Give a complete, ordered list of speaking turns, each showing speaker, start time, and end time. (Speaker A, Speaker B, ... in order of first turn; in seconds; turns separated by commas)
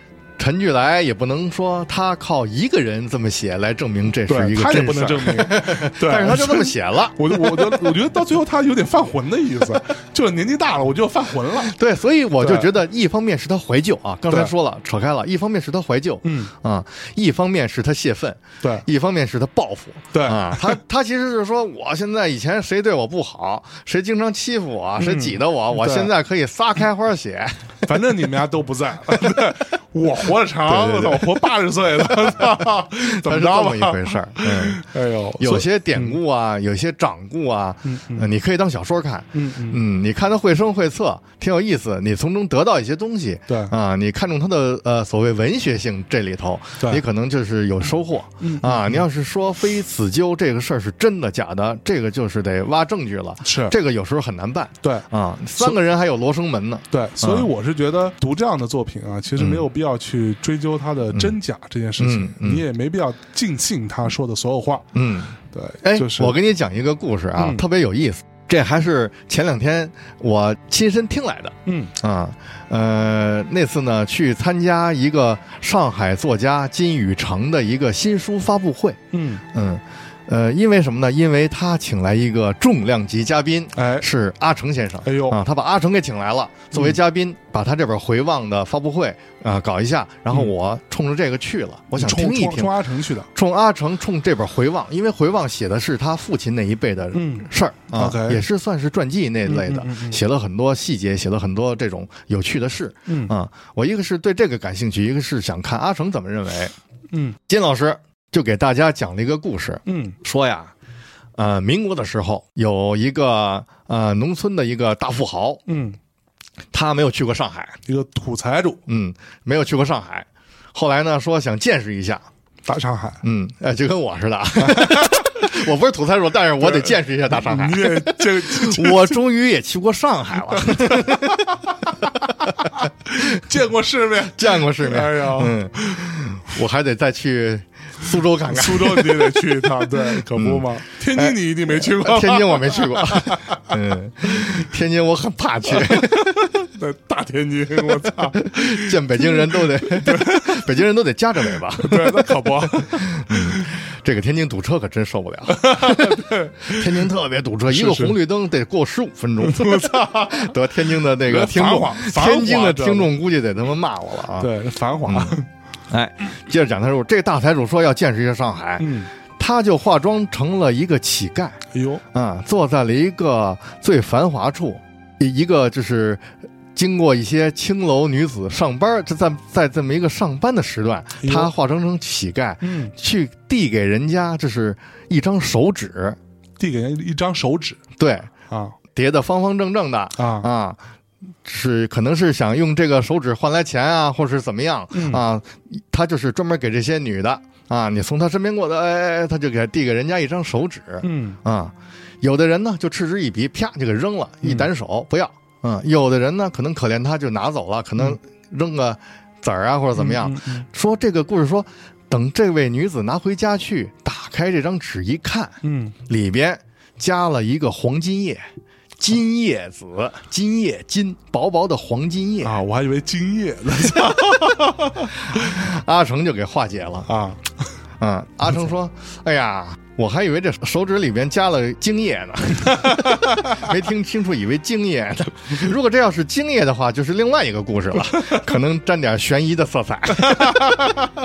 Speaker A: 0.4-8.0, Speaker B: 4.3-11.7, Speaker A: 11.6-28.1, Speaker B: 12.4-12.7, Speaker B: 16.2-16.5, Speaker B: 20.1-20.8, Speaker B: 25.0-26.1, Speaker B: 27.9-36.2, Speaker A: 30.6-31.3, Speaker A: 32.0-34.8, Speaker A: 35.4-57.5, Speaker B: 37.8-38.3, Speaker B: 39.3-39.8, Speaker B: 43.5-43.7, Speaker B: 48.4-49.0, Speaker B: 53.4-53.8, Speaker B: 54.8-55.8, Speaker B: 56.9-64.9, Speaker A: 59.4-59.6, Speaker A: 62.0-62.6, Speaker A: 64.9-79.0, Speaker B: 65.5-66.3, Speaker B: 67.3-67.6, Speaker B: 71.7-71.9, Speaker B: 79.1-79.4, Speaker A: 79.5-92.8, Speaker B: 83.7-84.1, Speaker B: 85.0-85.4, Speaker B: 86.7-87.0, Speaker B: 92.0-93.3, Speaker A: 93.3-106.7, Speaker B: 97.1-98.4, Speaker B: 99.5-100.2, Speaker B: 103.1-103.3, Speaker B: 107.1-107.4, Speaker A: 107.5-110.7, Speaker B: 109.8-110.2, Speaker A: 111.3-115.6, Speaker B: 115.7-116.0, Speaker A: 116.7-117.8, Speaker B: 117.8-118.8, Speaker A: 118.9-122.2, Speaker B: 122.7-123.2, Speaker A: 123.2-131.4, Speaker B: 124.6-125.5, Speaker B: 126.6-129.2, Speaker B: 130.5-136.1, Speaker A: 134.3-146.6, Speaker B: 138.5-143.7, Speaker B: 145.9-150.7, Speaker A: 148.3-164.5, Speaker B: 151.7-153.7, Speaker B: 155.5-157.1, Speaker B: 157.7-158.2, Speaker B: 159.4-160.5, Speaker B: 161.2-163.1, Speaker B: 164.4-165.5, Speaker A: 165.0-171.6, Speaker B: 168.8-169.1, Speaker B: 171.7-172.0, Speaker A: 172.1-186.2, Speaker B: 181.2-181.5, Speaker B: 182.6-182.9, Speaker B: 186.6-187.8, Speaker A: 188.0-188.3, Speaker B: 188.5-188.8, Speaker A: 188.9-190.8, Speaker B: 190.2-190.5, Speaker A: 191.4-222.6, Speaker B: 194.9-195.2, Speaker B: 201.0-201.4, Speaker B: 204.4-204.7, Speaker B: 209.9-210.7, Speaker B: 215.6-215.9, Speaker B: 222.4-225.6, Speaker A: 225.3-227.1, Speaker B: 227.1-227.6, Speaker A: 228.0-240.9, Speaker B: 232.6-233.7, Speaker B: 238.1-238.4, Speaker B: 240.2-241.1